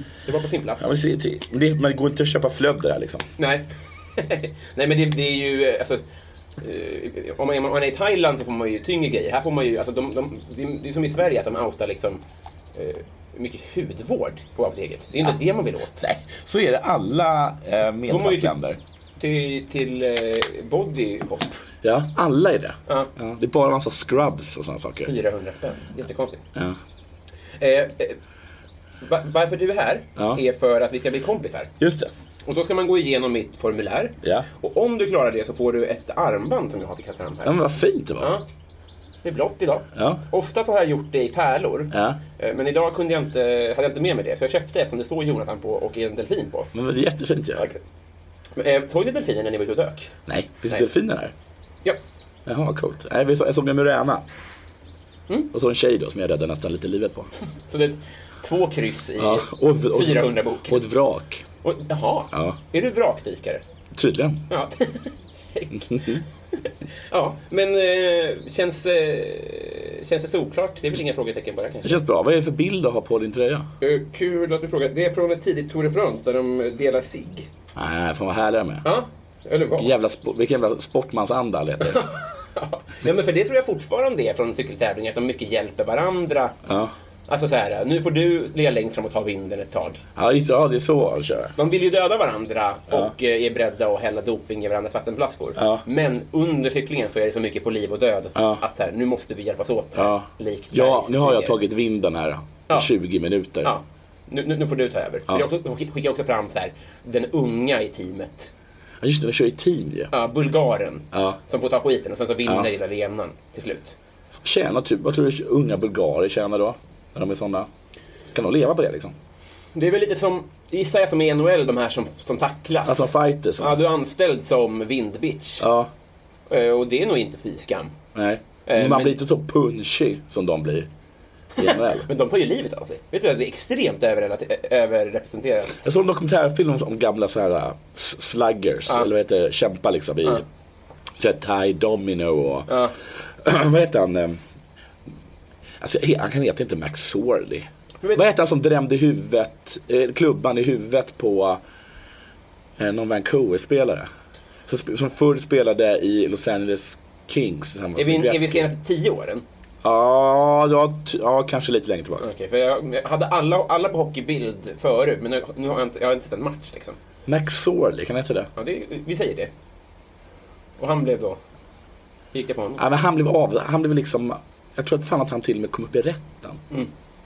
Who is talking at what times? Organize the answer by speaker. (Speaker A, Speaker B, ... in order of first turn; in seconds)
Speaker A: 0.2-0.9, 3.4-6.0, 6.6-12.2, 12.7-16.0, 18.1-18.5, 19.2-21.6, 25.0-26.4, 27.6-28.2, 29.0-31.7, 32.4-37.6, 38.2-38.4, 39.2-46.7, 48.5-50.1, 57.7-60.8, 61.6-63.6, 64.5-72.0, 73.8-77.5, 78.8-79.9, 81.8-86.5, 87.3-90.0, 91.5-101.6, 103.6-108.5, 110.1-113.9, 119.7-125.7, 126.5-127.9, 128.7-129.2, 131.6-135.8, 142.7-142.9, 157.9-159.4, 162.2-167.0, 168.6-169.5, 170.8-171.4, 172.3-172.8
Speaker B: 0.8-3.3, 16.0-18.8, 21.8-25.1, 30.2-30.4, 31.8-32.1, 34.2-34.5, 37.4-38.4, 39.9-40.2, 41.9-42.2, 46.7-47.6, 50.3-51.3, 52.5-54.2, 55.5-57.3, 59.2-61.4, 62.3-62.6, 63.9-64.4, 65.8-66.2, 71.8-73.7, 77.8-78.8, 79.8-82.0, 86.6-86.9, 90.2-91.5, 95.6-95.8, 98.3-98.6, 99.9-103.7, 109.0-110.1, 111.1-111.4, 114.4-117.7, 118.3-119.1, 122.8-123.8, 125.6-125.9, 128.1-130.9, 131.6-132.1, 135.8-140.4, 141.2-142.7, 143.4-144.4, 145.8-151.6, 152.8-154.1, 154.7-158.7, 159.8-162.3, 167.3-168.5, 172.8-176.6